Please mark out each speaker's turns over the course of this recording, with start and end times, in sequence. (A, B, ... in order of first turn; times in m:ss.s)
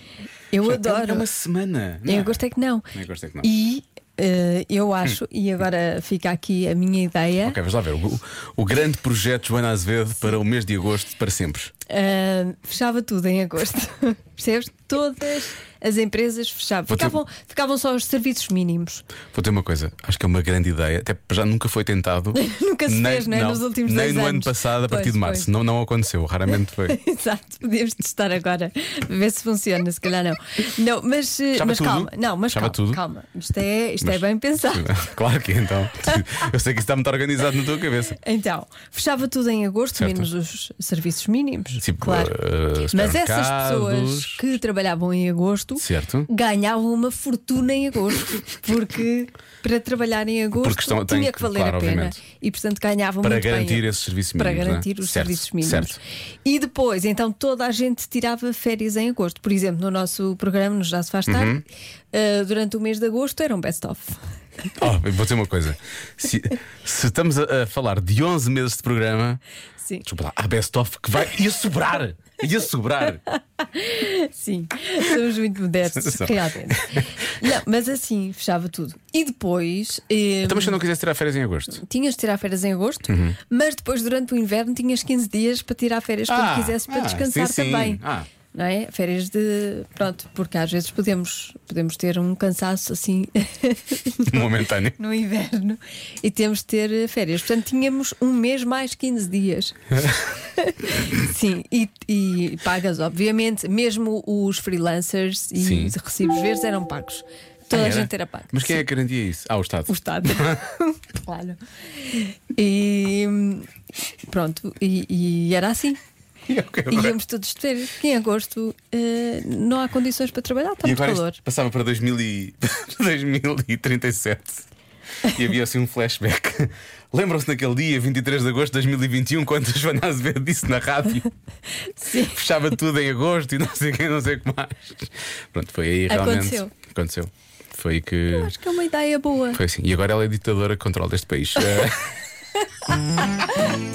0:00.5-0:01.2 A
0:00.6-0:03.5 B
0:02.1-0:02.9 A
0:03.4-0:07.6 A
0:07.4-0:11.7 B
0:11.9-0:19.0 A
0:16.9-0:17.2 B
0:19.3-0:27.0 B
0:22.4-0:25.5 A
0:26.9-0:34.9 A
0:31.5-0:33.0 B
0:34.0-0:38.2 B
0:38.2-0:42.3 A
0:40.0-0:40.3 B
0:41.8-0:44.4 B
0:42.9-1:01.6 A
0:45.8-0:46.3 B
0:50.6-0:52.2 B
0:53.2-0:56.0 B
1:01.3-1:01.6 B
1:02.1-1:04.2 A
1:04.8-1:09.4 B
1:10.0-1:13.2 B
1:13.6-1:20.8 A
1:15.9-1:17.1 B
1:20.4-1:21.8 B
1:21.7-1:28.0 A
1:23.1-1:23.4 B
1:26.3-1:28.3 B
1:28.5-1:39.8 A
1:34.3-1:35.0 B
1:40.5-1:48.8 A
1:45.6-1:46.0 B
1:47.7-1:50.6 B
1:49.9-1:53.7 A
1:54.3-1:56.0 A
1:56.5-1:57.2 B
1:56.9-2:01.4 A
2:00.8-2:04.7 B
2:05.2-2:11.3 B
2:12.0-2:12.4 A
2:12.2-2:18.5 B
2:16.1-2:16.7 A
2:18.3-2:19.6 A
2:19.5-2:22.1 B